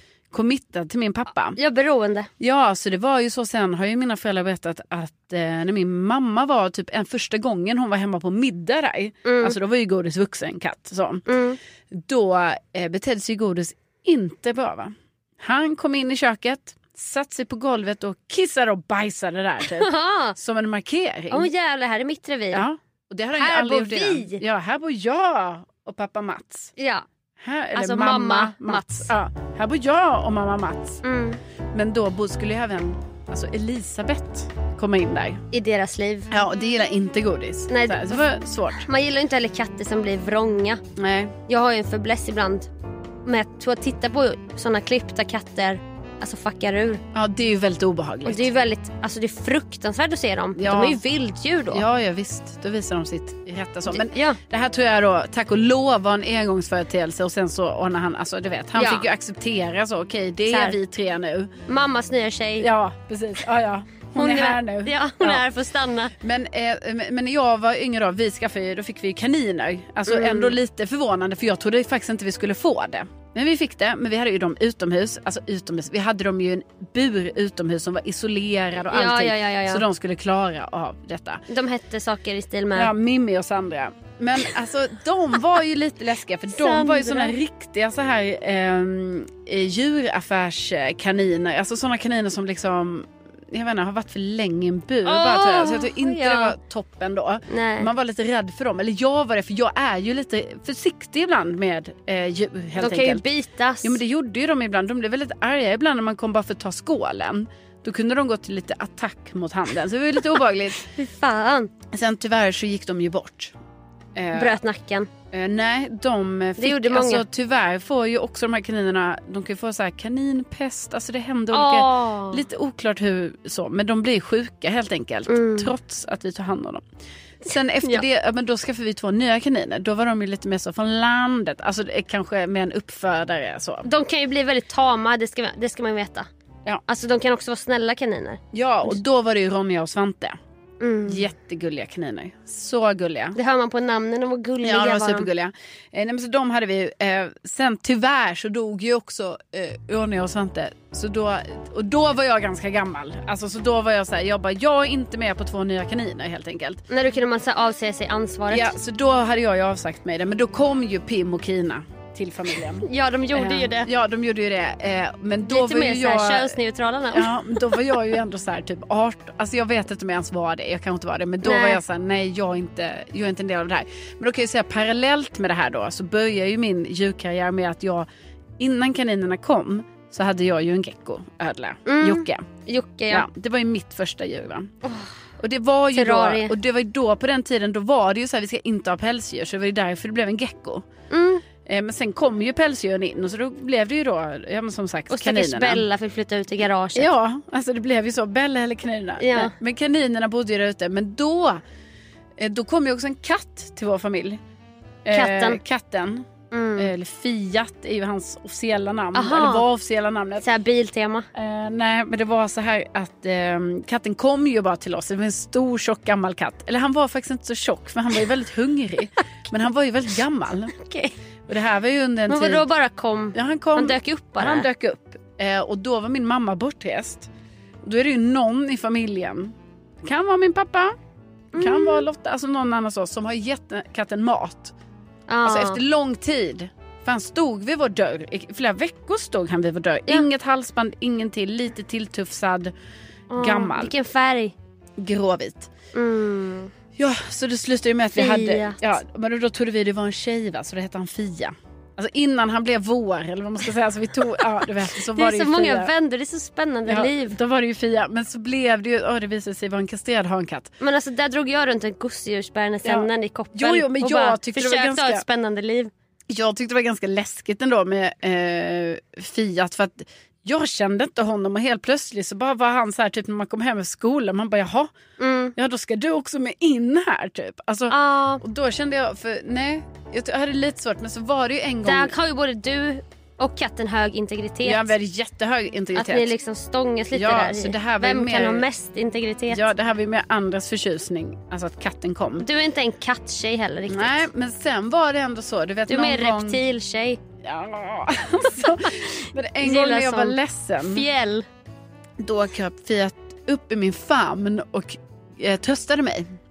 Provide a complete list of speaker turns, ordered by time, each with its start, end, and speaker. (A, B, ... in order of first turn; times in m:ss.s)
0:00.3-0:01.6 A
0:01.6-0:02.3 B
0:02.4-0:11.2 A
0:09.2-0:09.6 B
0:11.3-0:11.6 B
0:11.9-0:21.5 A
0:19.7-0:20.4 B
0:21.3-0:22.7 B
0:22.5-0:26.7 A
0:23.3-0:24.4 B
0:26.8-0:27.0 B
0:27.4-0:31.0 A
0:27.7-0:29.1 B
0:31.0-0:31.4 B
0:31.7-0:35.4 A
0:35.5-0:36.3 B
0:36.3-0:38.8 A
0:37.7-0:40.8 B
0:41.0-0:41.3 A
0:41.5-0:42.7 B
0:43.2-0:47.0 B
0:47.1-0:48.5 A
0:48.2-0:51.8 B
0:50.6-0:51.0 A
0:51.7-1:01.5 A
0:53.9-0:54.4 B
0:58.7-0:59.1 B
1:00.4-1:00.8 B
1:01.7-1:02.7 B
1:02.6-1:05.4 A
1:04.1-1:06.1 B
1:06.2-1:21.4 A
1:10.1-1:10.6 B
1:18.9-1:19.8 B
1:21.5-1:22.9 B
1:22.7-1:43.2 A
1:26.5-1:27.4 B
1:35.0-1:36.6 B
1:37.5-1:37.9 B
1:42.7-1:44.0 B
1:43.8-1:50.8 A
1:50.9-1:51.7 B
1:51.9-1:53.5 A
1:54.2-1:54.6 A
1:54.3-1:55.1 B
1:55.3-2:06.8 A
1:56.6-1:57.2 B
2:01.5-2:02.4 B
2:05.3-2:05.7 B
2:07.4-2:13.9 A
2:07.5-2:08.0 B
2:13.8-2:16.3 B
2:16.9-2:19.0 B
2:18.5-2:20.4 A
2:20.8-2:21.2 B
2:21.1-2:23.4 A
2:23.3-2:25.3 B
2:24.6-2:36.8 A
2:36.9-2:38.7 B
2:38.5-2:46.6 A
2:42.7-2:43.9 B
2:45.4-2:48.0 B
2:47.1-2:58.1 A
2:51.4-2:51.8 B
2:58.6-3:02.5 A
3:01.8-3:03.3 B
3:03.1-3:04.7 A
3:04.8-3:05.1 B
3:05.4-3:10.8 A
3:05.9-3:06.5 B
3:11.1-3:11.5 B
3:11.6-3:15.8 A
3:15.1-3:17.1 B
3:16.9-3:21.6 A
3:19.2-3:19.5 B
3:22.4-3:24.4 A
3:25.0-3:30.4 A
3:25.1-3:25.6 B
3:26.5-3:26.9 B
3:29.1-3:29.7 B
3:30.4-3:31.3 B
3:31.3-3:40.7 A
3:40.7-3:41.1 B
3:41.5-3:42.6 A
3:42.3-3:44.7 B
3:43.3-3:47.3 A
3:47.8-3:51.0 A
3:51.5-3:52.1 B
3:51.6-3:54.7 A
3:55.3-3:55.8 B
3:55.4-4:02.7 A
4:03.3-4:04.5 B
4:03.4-4:03.9 A
4:05.0-4:05.7 A
4:05.9-4:06.7 B
4:07.0-4:15.9 A
4:08.1-4:08.9 B
4:15.0-4:17.4 B
4:16.8-4:20.7 A
4:20.8-4:25.9 B
4:22.8-4:25.2 A
4:26.3-4:34.9 A
4:35.2-4:35.5 B
4:35.6-4:42.1 A
4:37.9-4:38.4 B
4:41.8-4:44.9 B
4:44.6-4:46.4 A
4:45.9-4:49.7 B
4:47.1-4:48.6 A
4:49.5-4:52.4 A
4:52.4-4:54.3 B
4:53.9-4:56.6 A
4:55.9-4:57.2 B
4:57.4-5:01.1 A
4:58.7-5:01.5 B
5:02.2-5:06.3 A